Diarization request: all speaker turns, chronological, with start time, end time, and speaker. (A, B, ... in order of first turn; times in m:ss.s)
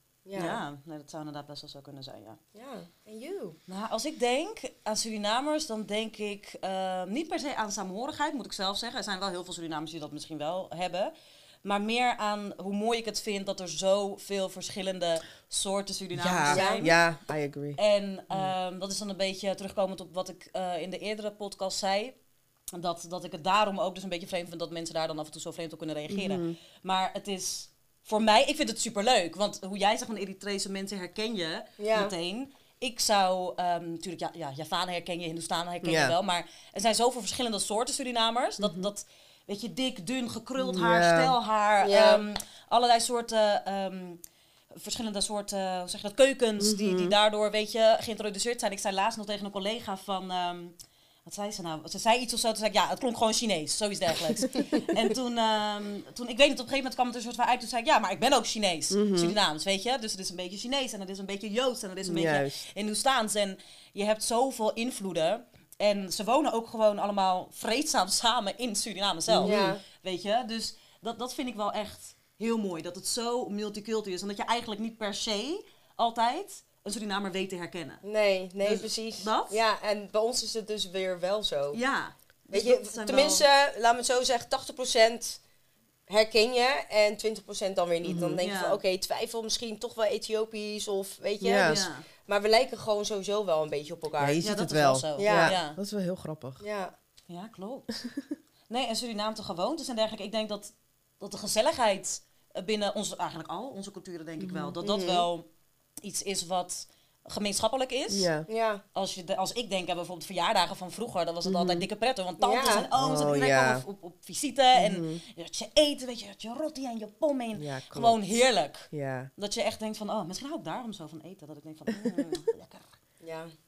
0:00.2-0:00.6 A
0:00.3-0:02.4 B
0:02.5-0:03.6 A
0:03.7-0:11.1 B
0:11.6-0:17.0 B
0:16.1-0:17.8 C
0:16.5-0:16.8 A
0:17.8-0:22.2 B
0:22.7-0:44.2 B
0:26.1-0:26.6 C
0:31.8-0:32.1 A
0:35.8-0:36.2 C
0:38.6-0:38.9 C
0:40.6-0:41.4 C
0:41.8-0:42.2 A
0:44.7-1:18.0 B
0:46.6-0:47.2 C
0:54.4-0:54.8 C
0:58.9-0:59.4 C
1:02.0-1:02.6 C
1:09.3-1:09.6 C
1:09.4-1:09.8 A
1:18.0-1:21.8 A
1:18.6-1:19.6 B
1:21.7-1:23.4 B
1:22.5-1:25.4 A
1:26.1-1:34.4 A
1:28.0-1:28.4 C
1:28.4-1:28.8 B
1:31.4-1:31.8 C
1:31.6-1:32.0 B
1:34.2-1:36.6 C
1:34.4-1:35.8 B
1:35.2-1:35.6 A
1:36.6-1:36.9 A
1:37.3-1:38.0 B
1:38.0-1:38.3 C
1:38.7-1:45.4 B
1:44.4-1:44.8 C
1:44.8-1:45.2 A
1:46.0-1:48.3 B
1:48.1-1:48.5 C
1:48.5-1:48.8 A
1:48.9-2:02.9 B
1:51.4-1:51.9 C
1:52.4-1:52.8 A
1:52.9-1:53.8 C
1:54.7-1:55.2 C
1:57.6-1:58.2 C
1:58.9-1:59.3 C
2:03.2-2:03.5 A